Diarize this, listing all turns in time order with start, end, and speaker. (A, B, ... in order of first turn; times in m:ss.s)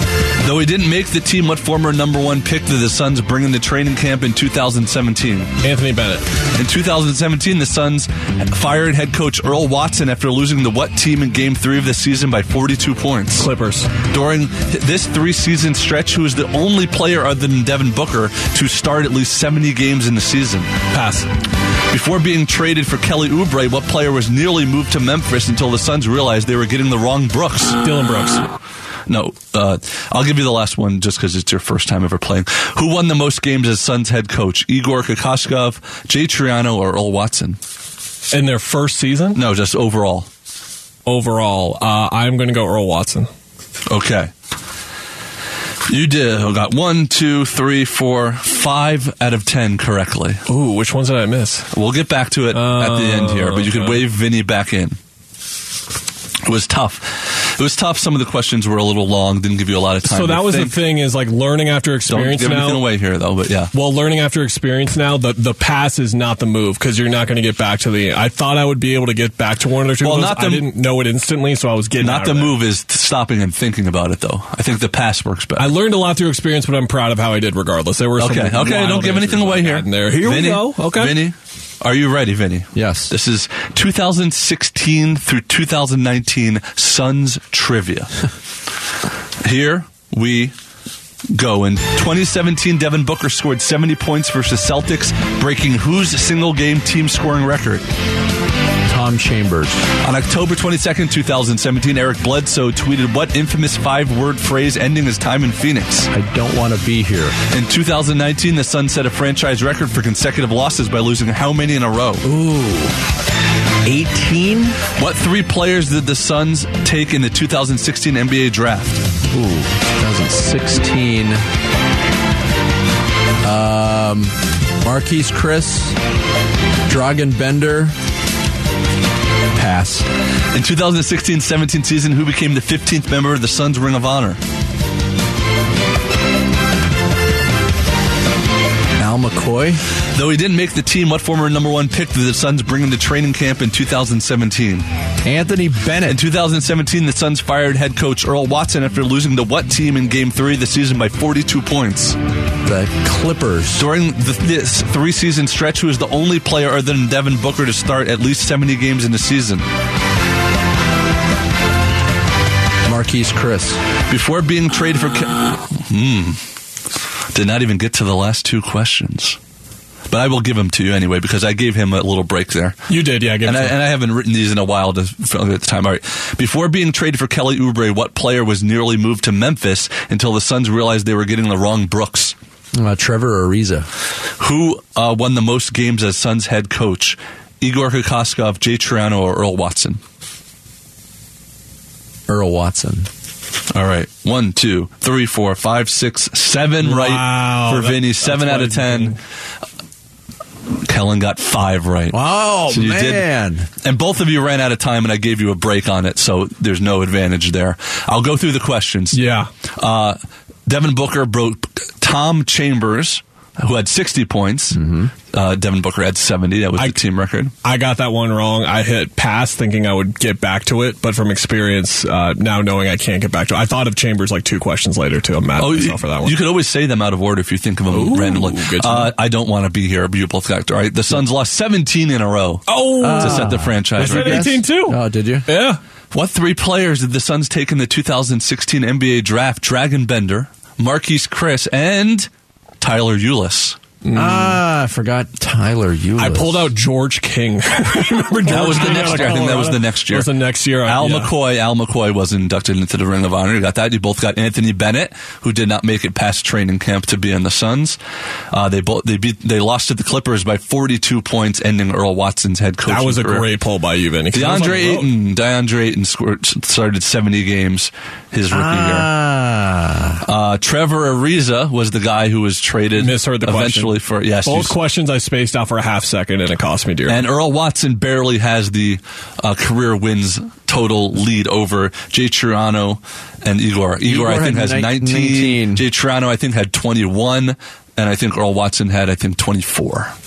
0:00.4-0:05.5 A
0:05.6-0:06.3 B
0:06.6-0:13.5 A
0:13.4-0:13.9 B
0:14.1-0:20.7 A
0:20.9-0:21.3 B
0:21.9-0:27.8 A
0:27.8-0:28.4 B
0:29.1-0:37.6 A
0:38.3-0:39.4 B
0:39.4-0:40.3 A
0:41.1-0:43.3 B
0:43.9-0:44.3 A
0:45.9-0:50.4 A
0:50.5-0:51.7 B
0:51.7-0:55.0 A
0:52.5-0:54.0 B
0:56.4-1:00.8 A
1:00.0-1:02.9 B
1:02.1-1:03.7 A
1:03.7-1:12.6 B
1:10.0-1:10.7 A
1:12.0-1:15.7 A
1:15.6-1:21.2 B
1:18.2-1:28.2 A
1:22.8-1:23.1 C
1:29.4-1:30.5 A
1:31.3-1:37.9 A
1:38.9-1:39.8 C
1:40.0-1:46.1 A
1:46.1-1:47.4 C
1:47.5-1:52.2 A
1:52.2-1:53.0 C
1:53.8-1:54.8 C
1:55.0-1:59.0 A
1:59.3-2:01.4 C
2:03.4-2:06.0 C
2:06.9-2:07.9 C
2:09.6-2:10.1 C
2:10.5-2:14.4 A
2:19.0-2:19.8 C
2:20.1-2:24.9 A
2:25.2-2:26.2 C
2:26.1-2:32.2 A
2:32.6-2:33.9 C
2:33.8-2:39.7 A
2:42.9-2:43.8 C
2:44.1-2:46.4 A
2:47.3-2:49.4 A
2:50.1-2:52.8 A
2:52.9-2:53.8 B
2:53.4-3:02.4 A
3:02.8-3:03.9 C
3:04.4-3:10.0 A
3:12.3-3:13.1 C
3:13.7-3:19.2 A
3:16.8-3:19.2 B
3:20.8-3:23.3 A
3:22.1-3:23.7 C
3:23.8-3:29.2 A
3:29.1-3:29.5 B
3:29.8-3:37.5 A
3:34.7-3:35.1 C
3:37.6-3:46.4 B
3:45.6-3:54.6 A
3:47.9-3:49.1 B
3:52.7-3:55.8 B
3:53.0-3:55.5 C
3:56.1-4:02.3 A
4:02.8-4:03.8 A
4:04.0-4:04.6 B
4:04.1-4:06.7 C
4:06.2-4:11.3 B
4:08.4-4:10.3 A
4:10.8-4:18.0 A
4:18.5-4:23.5 A
4:22.9-4:25.1 B
4:24.3-4:29.1 A
4:28.5-4:30.2 C
4:30.2-4:34.8 A
4:33.0-4:37.2 B
4:37.1-4:50.1 A
4:44.0-4:45.8 C